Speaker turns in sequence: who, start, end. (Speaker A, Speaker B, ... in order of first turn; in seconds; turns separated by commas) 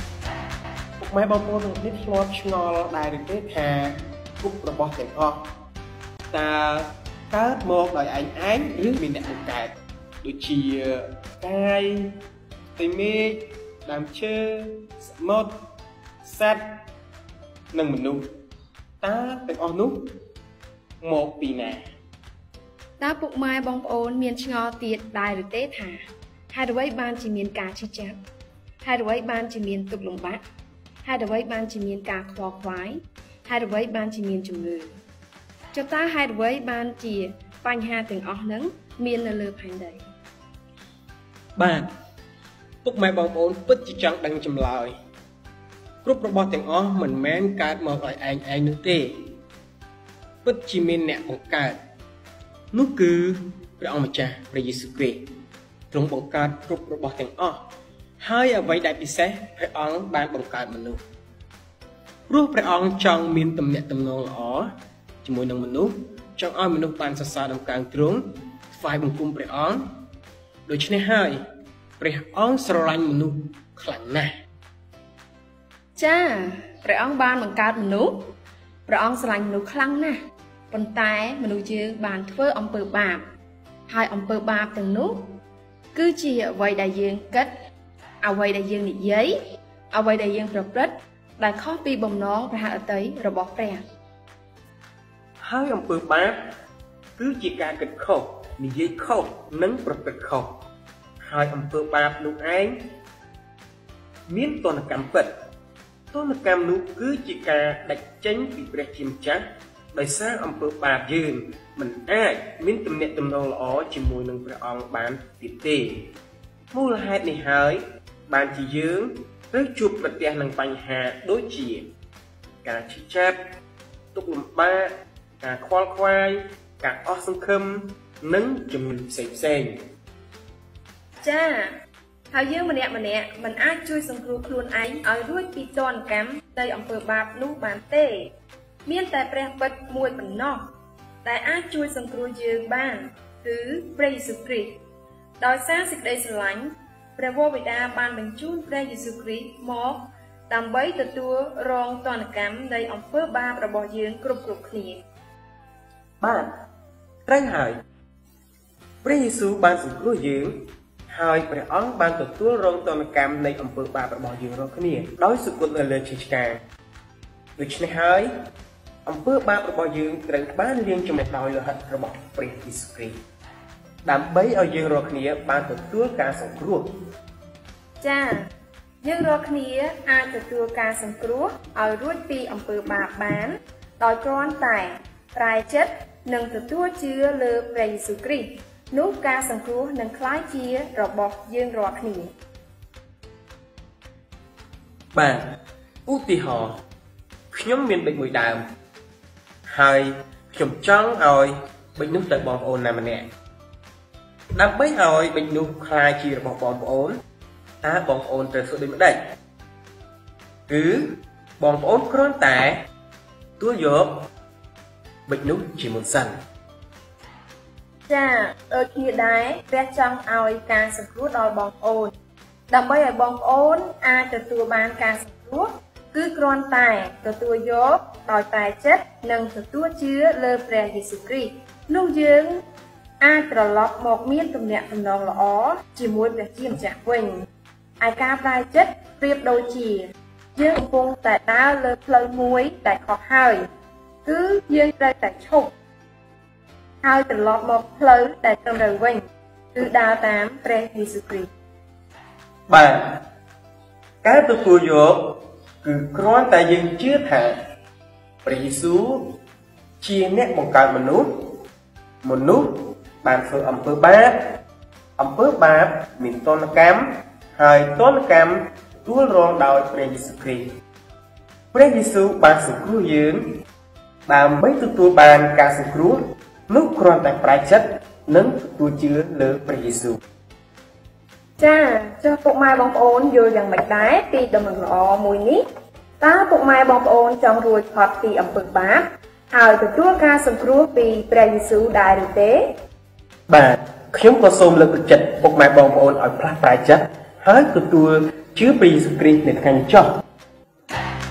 Speaker A: 1.0-5.5, Speaker A: 6.3-12.2, Speaker A: 12.8-15.6, Speaker A: 16.2-16.6, Speaker A: 17.7-18.3, Speaker A: 19.0-20.1, Speaker A: 21.0-21.8, Speaker B: 23.0-28.2, Speaker B: 28.8-30.4, Speaker B: 31.0-35.0, Speaker B: 35.7-40.0, Speaker A: 41.5-41.9, Speaker A: 42.8-44.9, Speaker A: 46.0-49.3, Speaker A: 50.4-51.8, Speaker A: 52.7-55.3, Speaker A: 55.9-57.6, Speaker A: 58.2-61.0, Speaker A: 62.3-64.7, Speaker A: 65.2-69.9, Speaker A: 70.7-71.4, Speaker A: 72.0-74.3, Speaker B: 76.0-78.3, Speaker B: 78.9-80.2, Speaker B: 80.7-83.2, Speaker B: 83.9-85.4, Speaker B: 85.9-87.5, Speaker B: 88.2-89.3, Speaker B: 89.9-93.8, Speaker A: 95.4-96.4, Speaker A: 97.2-100.5, Speaker A: 101.2-102.8, Speaker A: 104.3-105.3, Speaker A: 106.1-116.1, Speaker A: 116.7-121.9, Speaker A: 122.6-123.4, Speaker A: 124.1-129.7, Speaker B: 131.2-131.7, Speaker B: 132.3-138.3, Speaker B: 138.8-140.7, Speaker B: 141.2-144.8, Speaker B: 145.4-155.0, Speaker A: 156.2-156.5, Speaker A: 157.2-157.8, Speaker A: 159.0-166.6, Speaker A: 167.6-168.3, Speaker A: 169.0-173.2, Speaker A: 174.0-177.0, Speaker B: 178.0-178.5, Speaker B: 179.0-192.3, Speaker A: 195.1-196.8, Speaker A: 197.5-198.6, Speaker A: 199.7-203.3, Speaker A: 204.5-207.2, Speaker A: 207.8-209.2, Speaker A: 210.7-212.8, Speaker A: 213.6-214.3, Speaker A: 215.3-216.3, Speaker B: 218.1-222.1, Speaker B: 222.7-232.6, Speaker B: 233.2-237.4, Speaker B: 238.0-243.6, Speaker B: 244.2-245.7, Speaker B: 247.0-249.2, Speaker B: 249.7-251.5, Speaker A: 252.7-253.2, Speaker A: 254.2-257.6, Speaker A: 258.4-259.3, Speaker A: 260.0-261.5, Speaker A: 262.2-264.4, Speaker A: 265.2-270.7, Speaker A: 271.7-273.4, Speaker A: 274.3-280.2, Speaker B: 281.6-285.6, Speaker B: 286.2-292.6, Speaker A: 293.5-300.2